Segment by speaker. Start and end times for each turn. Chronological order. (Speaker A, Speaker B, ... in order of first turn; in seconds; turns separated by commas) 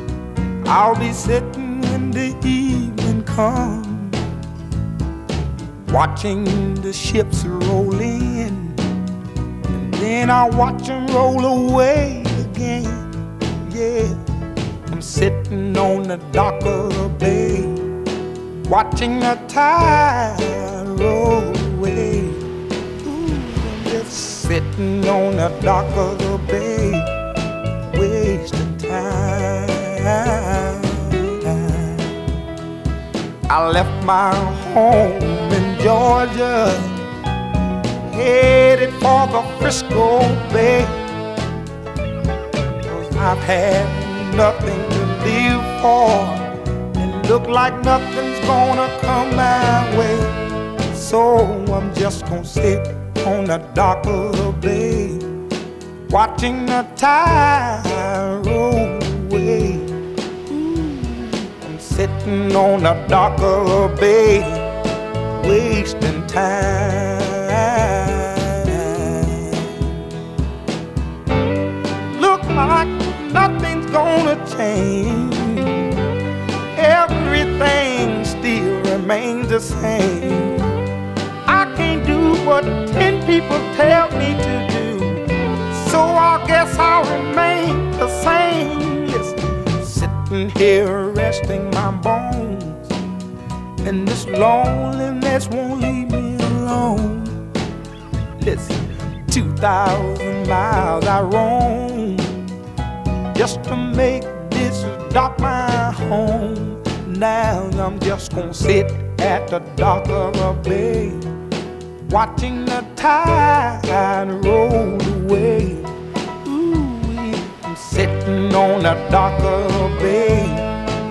Speaker A: 0.7-4.2, Speaker A: 5.9-8.9, Speaker A: 9.7-13.1, Speaker A: 13.6-14.2, Speaker A: 14.9-17.8, Speaker A: 18.7-22.4, Speaker A: 23.0-27.1, Speaker A: 27.9-32.1, Speaker A: 33.5-37.0, Speaker A: 38.1-41.0, Speaker A: 42.8-50.4, Speaker A: 50.9-55.2, Speaker A: 56.1-59.9, Speaker A: 60.5-64.7, Speaker A: 65.4-69.9, Speaker A: 72.1-75.9, Speaker A: 76.8-80.6, Speaker A: 81.5-92.9, Speaker A: 93.8-97.4, Speaker A: 98.4-102.5, Speaker A: 103.3-111.2, Speaker A: 112.1-115.9, Speaker A: 116.4-120.7